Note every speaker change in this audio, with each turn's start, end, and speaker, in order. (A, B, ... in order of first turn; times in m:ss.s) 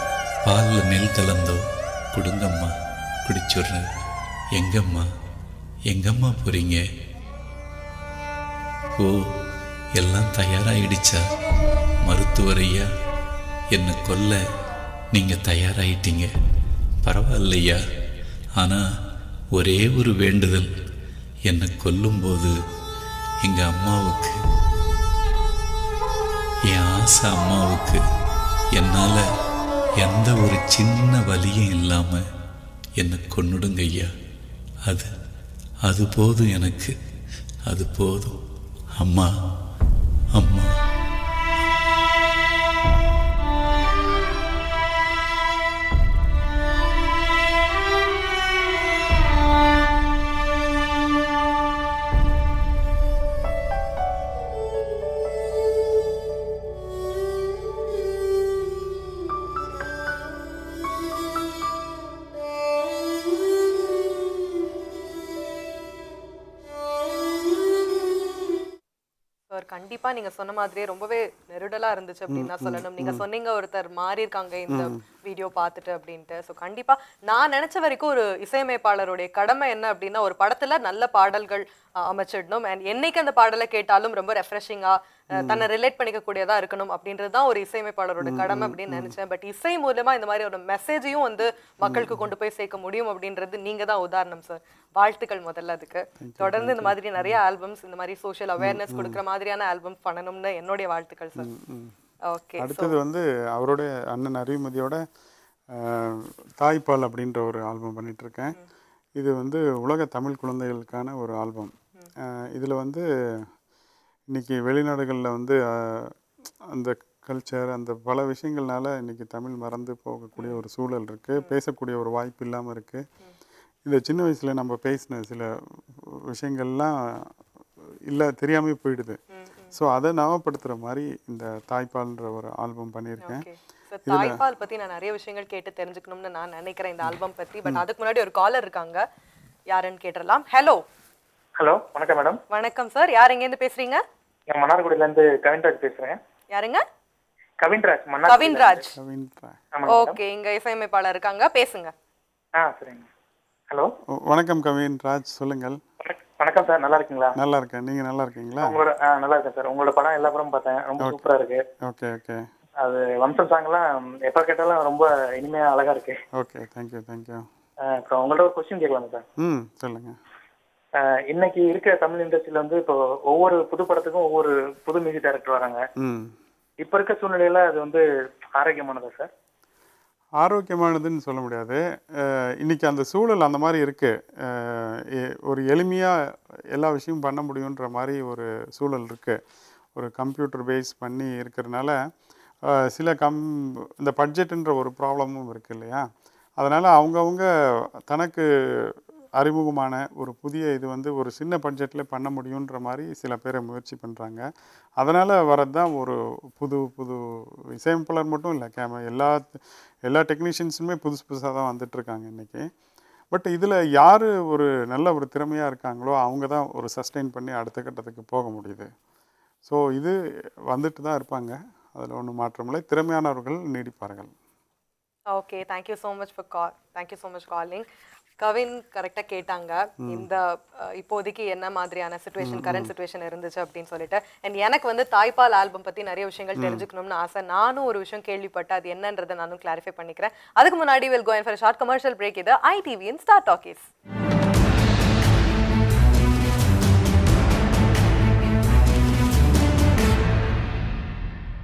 0:00.4-0:01.6 A
0:02.1-0:02.7 A
0:03.2-0:03.9 A
0:04.6-0:05.1 A
0:05.9-0:06.8 A
0:10.0-0:11.2 A
0:12.0-0:12.8 A
0:13.7-0:14.4 A
0:15.1-0:16.3 A
0:17.0-0:17.8 A
0:18.6-0:18.8 A
0:19.5-0:20.7 A
0:21.5-0:22.5 A
0:23.4-0:24.4 A
0:26.7-0:28.0 A
0:28.8-0:29.2 A
0:30.0-0:32.2 A
0:33.0-0:34.1 A
0:35.9-0:36.9 A
0:37.7-0:38.4 A
0:39.0-0:39.3 A
0:40.4-0:40.7 A
1:09.5-1:41.5 B
1:12.3-1:13.2 C
1:14.7-1:15.0 C
1:25.4-1:25.7 C
1:28.2-1:29.1 C
1:31.8-1:32.2 C
1:36.2-1:37.4 C
1:38.6-1:39.2 C
1:41.4-1:41.9 C
1:42.3-1:43.0 B
1:42.6-1:45.0 C
1:45.7-1:48.6 C
1:49.2-1:53.4 C
1:54.3-1:56.1 C
1:56.7-2:03.0 C
2:03.8-2:07.3 C
2:08.1-2:09.2 C
2:09.3-2:09.7 B
2:09.7-2:13.4 C
2:13.2-2:19.0 B
2:14.0-2:14.4 C
2:19.7-2:20.8 B
2:21.6-2:22.4 D
2:22.5-2:24.0 B
2:24.5-2:26.2 D
2:26.5-2:26.8 B
2:27.6-2:28.8 D
2:28.3-2:28.8 B
2:28.9-2:29.6 C
2:29.8-2:30.2 D
2:29.9-2:31.9 B
2:32.6-2:33.1 D
2:34.1-2:35.8 C
2:36.0-2:37.3 D
2:37.4-2:38.8 C
2:38.6-2:41.6 D
2:41.8-2:42.4 C
2:42.8-2:46.2 D
2:46.3-2:47.4 C
2:48.0-2:49.2 D
2:49.4-2:50.2 C
2:51.3-2:55.8 D
2:56.0-2:56.3 C
2:56.8-2:58.0 D
2:58.6-2:59.3 D
3:00.4-3:06.2 C
3:06.7-3:09.4 C
3:09.9-3:12.0 C
3:12.7-3:16.0 C
3:16.6-3:17.5 C
3:18.1-3:24.4 C
3:25.0-3:32.7 C
3:33.3-3:38.9 C
3:39.6-3:40.2 C
3:40.7-3:44.3 C
3:45.3-3:47.8 B
3:48.4-4:03.9 B
3:52.4-3:52.9 C
3:56.6-3:56.8 C